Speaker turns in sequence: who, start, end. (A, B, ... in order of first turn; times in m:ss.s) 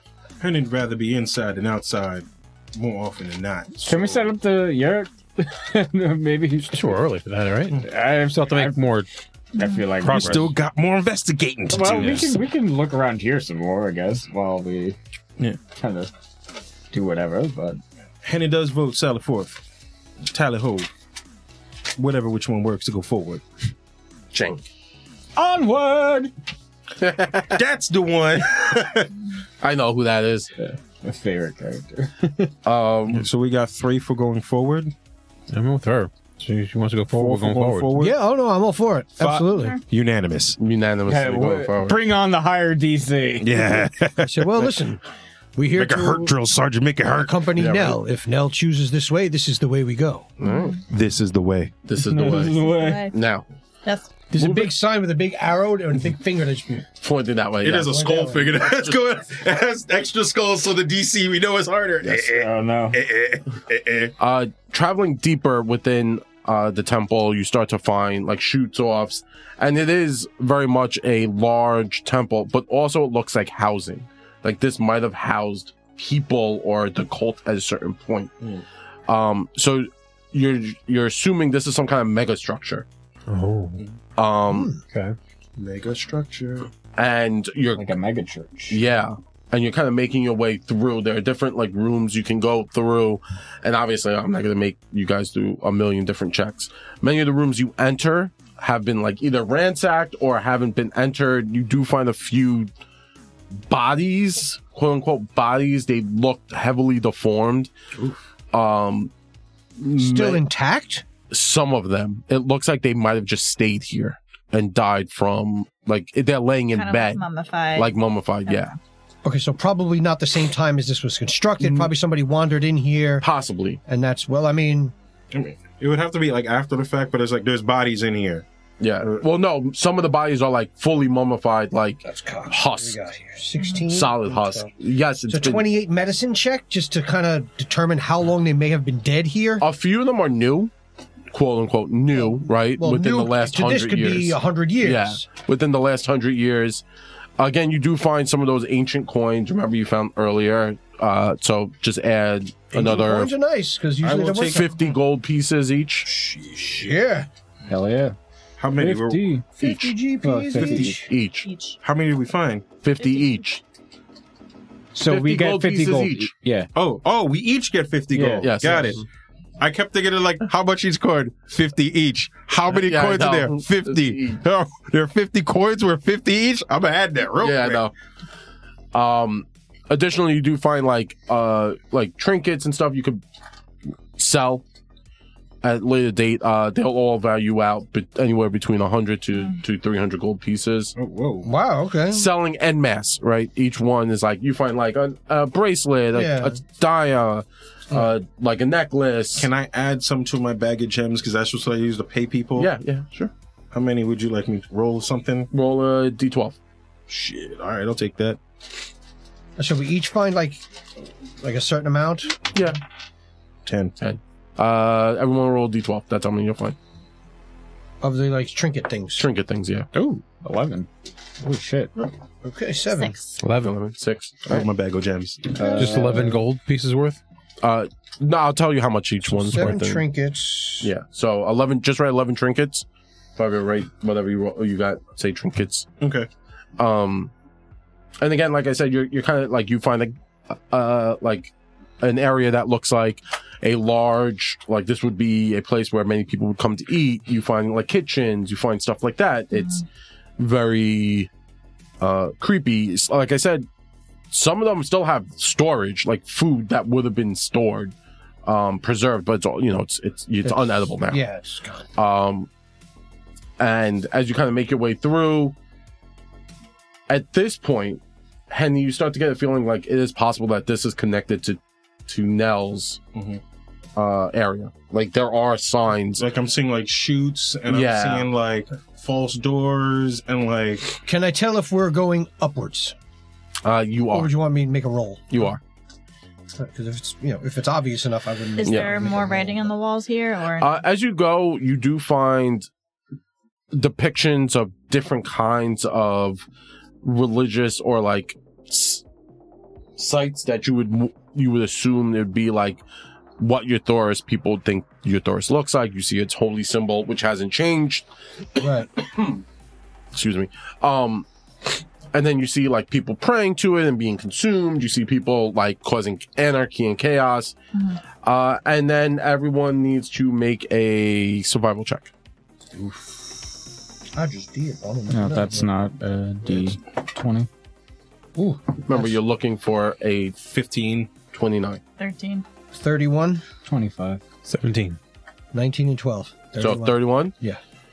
0:00.4-0:04.3 A
0:03.8-0:07.0 B
0:06.7-0:09.1 C
0:07.8-0:08.8 B
0:09.5-0:09.9 D
0:09.5-0:10.5 B
0:10.0-0:12.4 A
0:10.0-0:10.5 C
0:11.7-0:15.0 B
0:15.7-0:16.1 B
0:16.9-0:17.8 B
0:18.2-0:19.6 A
0:20.3-0:20.9 A
0:22.0-0:23.4 A
0:24.3-0:24.6 E
0:25.4-0:26.3 B
0:27.0-0:27.6 E
0:27.5-0:29.1 A
0:29.6-0:30.5 E
0:30.6-0:32.5 B
0:32.6-0:33.3 E
0:33.1-0:34.9 A
0:35.5-0:37.9 C
0:37.1-0:38.2 A
0:38.0-0:39.8 F
0:39.2-0:40.6 A
0:40.6-0:42.0 E
0:41.0-0:43.8 B
0:43.4-0:44.8 A
0:44.3-0:45.0 F
0:45.6-0:46.3 F
0:45.7-0:47.4 A
0:47.1-0:50.3 F
0:47.6-0:48.0 E
0:50.4-0:50.8 E
0:50.4-0:50.8 D
0:50.9-0:51.7 A
0:51.8-0:53.4 E
0:52.0-0:53.0 B
0:52.4-0:53.2 D
0:53.8-0:54.1 D
0:54.3-0:56.8 F
0:54.4-0:54.7 E
0:57.0-0:59.0 E
0:57.6-1:04.1 A
0:57.8-0:58.6 F
1:02.2-1:03.0 B
1:04.2-1:18.3 E
1:19.1-1:22.8 E
1:23.3-1:23.8 C
1:24.2-1:24.7 E
1:24.5-1:24.8 F
1:24.9-1:25.2 C
1:25.6-1:26.7 A
1:27.0-1:27.9 E
1:27.7-1:28.8 B
1:28.7-1:42.7 E
1:43.7-1:47.7 E
1:48.5-1:49.1 E
1:49.8-1:50.4 E
1:50.0-1:51.0 F
1:51.3-1:57.2 E
1:56.7-1:57.9 D
1:57.8-1:58.7 E
1:58.4-1:58.7 D
1:59.2-2:03.3 F
2:01.6-2:01.9 E
2:03.2-2:03.8 E
2:03.8-2:04.9 F
2:05.3-2:08.4 A
2:08.8-2:13.0 E
2:12.0-2:14.7 F
2:13.6-2:13.9 D
2:13.9-2:15.7 E
2:15.3-2:19.6 F
2:19.6-2:20.7 E
2:21.3-2:26.8 E
2:22.2-2:25.2 F
2:27.4-2:33.3 E
2:32.7-2:34.7 F
2:34.0-2:34.8 A
2:34.5-2:36.1 E
2:36.0-2:36.9 A
2:36.8-2:37.3 F
2:37.7-2:38.2 B
2:38.6-2:39.4 A
2:38.8-2:39.4 B
2:39.6-2:41.1 F
2:39.6-2:40.0 E
2:40.2-2:41.0 B
2:40.6-2:40.9 A
2:40.9-2:41.5 E
2:41.4-2:41.8 D
2:41.8-2:42.7 A
2:42.8-2:43.6 E
2:44.9-2:46.7 B
2:45.0-2:46.3 E
2:46.7-2:49.0 A
2:48.1-2:48.7 B
2:48.4-2:49.0 E
2:49.6-2:57.8 A
2:52.7-2:54.4 E
2:57.4-2:57.9 E
2:58.9-3:03.2 E
3:04.2-3:04.6 E
3:05.6-3:10.9 E
3:11.0-3:11.5 A
3:11.4-3:12.2 F
3:12.1-3:19.5 E
3:16.1-3:16.5 F
3:19.3-3:22.7 A
3:22.6-3:23.3 E
3:23.7-3:25.5 A
3:25.5-3:26.6 E
3:27.1-3:28.4 A
3:29.6-3:30.6 F
3:31.4-3:32.4 F
3:32.5-3:32.8 E
3:33.6-3:33.9 A
3:34.0-3:36.8 E
3:38.0-3:39.2 F
3:39.2-3:39.9 E
3:39.9-3:40.9 B
3:41.4-3:41.9 B
3:42.0-3:43.2 F
3:42.9-3:43.4 D
3:43.4-3:43.7 C
3:43.6-3:44.7 E
3:44.4-3:45.6 A
3:45.5-3:46.4 B
3:45.7-3:46.2 F
3:45.8-3:47.2 C
3:47.6-3:50.0 E
3:49.2-3:50.9 F
3:50.8-3:52.8 E
3:53.4-3:55.9 E
3:56.0-3:56.3 A
3:56.8-3:57.3 E
3:58.2-4:09.8 E
4:10.4-4:11.3 E
4:12.0-4:13.7 E
4:14.3-4:17.9 E
4:18.4-4:21.2 E
4:20.4-4:21.9 F
4:22.0-4:22.5 E
4:23.6-4:25.6 E
4:27.1-4:33.0 E
4:33.1-4:33.4 A
4:34.0-4:36.2 E
4:36.2-4:41.0 A
4:37.7-4:38.3 E
4:41.0-4:42.9 F
4:43.6-4:44.3 E
4:44.1-4:45.4 F
4:45.3-4:45.6 E
4:46.5-4:49.7 F
4:48.6-4:50.8 D
4:48.6-4:49.0 E
4:50.6-4:52.7 E
4:53.7-4:56.4 E
4:57.0-4:59.0 E
5:00.0-5:02.8 E
5:03.4-5:08.0 E
5:08.6-5:08.9 F
5:09.0-5:09.4 E
5:10.1-5:11.3 E
5:12.1-5:17.5 E
5:17.7-5:18.0 D
5:18.2-5:22.1 E
5:22.8-5:23.1 F
5:24.1-5:25.7 F
5:25.1-5:27.5 B
5:28.4-5:29.2 F
5:28.8-5:30.4 E
5:30.4-5:31.1 A
5:31.3-5:31.8 E
5:32.0-5:32.4 D
5:32.7-5:33.4 F
5:33.6-5:34.2 B
5:34.4-5:35.0 C
5:35.5-5:37.6 F
5:36.6-5:37.3 E